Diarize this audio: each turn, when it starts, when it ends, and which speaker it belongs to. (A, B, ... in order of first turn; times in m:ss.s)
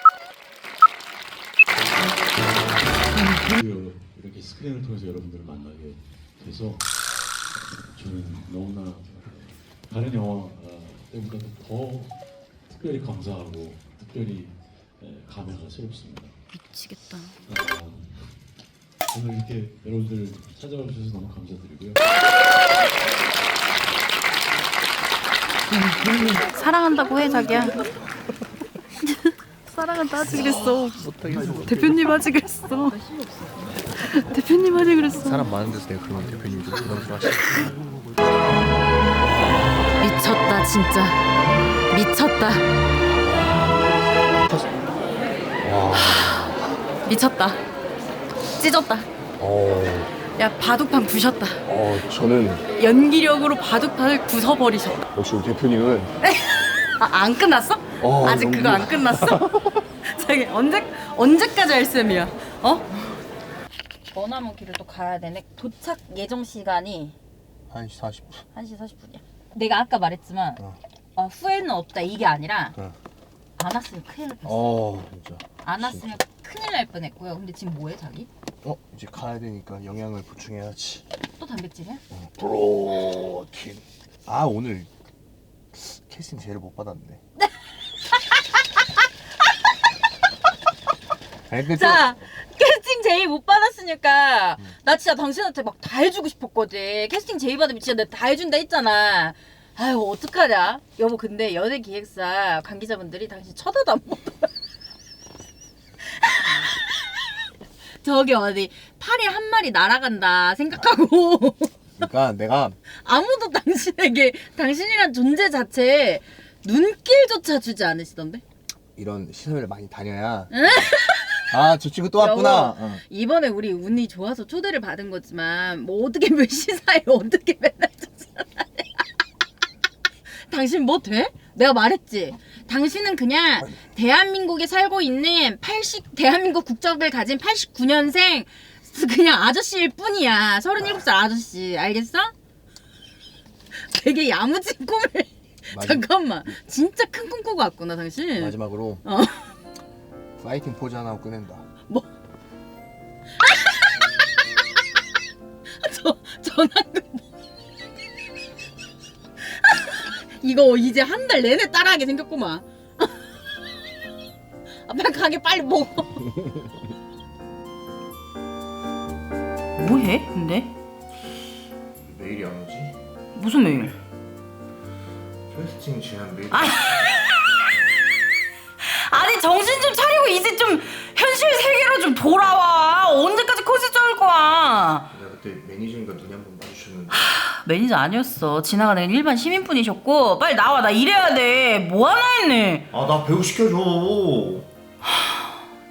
0:03.2-0:16.4 A
0:16.5-0:17.4 B
0:17.4-0:18.3 A
0:19.1-0:22.0 A
0:25.7-0:27.8 B
0:29.0-0:31.0 B
0:30.2-0:31.9 C
0:31.6-0:33.3 B
0:33.8-0:35.4 B
0:35.2-0:37.8 C
0:40.0-0:41.2 B
0:41.9-0:42.6 B
0:43.1-0:43.7 C
0:44.4-0:44.7 C
0:45.6-0:46.8 C
0:46.0-0:46.4 B
0:47.1-0:47.6 B
0:48.5-0:49.1 B
0:49.4-0:50.1 C
0:50.4-0:51.6 B
0:51.7-0:52.6 C
0:52.8-0:55.1 B
0:55.1-0:56.1 C
0:56.2-0:59.4 B
0:58.0-0:59.8 C
1:00.0-1:02.9 B
1:04.1-1:07.2 B
1:07.7-1:08.4 C
1:08.5-1:10.6 B
1:11.2-1:12.8 B
1:13.6-1:14.8 B
1:14.5-1:16.2 C
1:15.6-1:18.3 B
1:18.6-1:21.1 C
1:21.4-1:22.0 B
1:22.1-1:24.9 C
1:25.7-1:27.2 C
1:31.5-1:32.1 C
1:31.7-1:44.5 B
1:46.0-1:47.4 B
1:48.0-1:51.7 B
1:52.0-1:52.8 C
1:52.9-1:58.4 B
1:59.0-2:00.9 C
2:00.5-2:01.6 B
2:01.5-2:03.0 C
2:02.2-2:09.0 B
2:10.3-2:22.3 B
2:23.8-2:29.5 B
2:25.7-2:26.0 C
2:28.4-2:29.0 C
2:30.4-2:31.7 C
2:33.4-2:34.6 B
2:35.7-2:37.2 B
2:39.4-2:43.3 B
2:44.9-2:46.3 B
2:49.8-2:50.7 B
2:52.0-2:53.0 C
2:53.4-2:54.0 B
2:55.5-2:57.0 C
2:56.5-2:58.0 B
2:58.8-3:05.1 B
3:05.1-3:07.2 C
3:07.1-3:12.9 B
3:12.9-3:14.7 C
3:15.1-3:15.5 B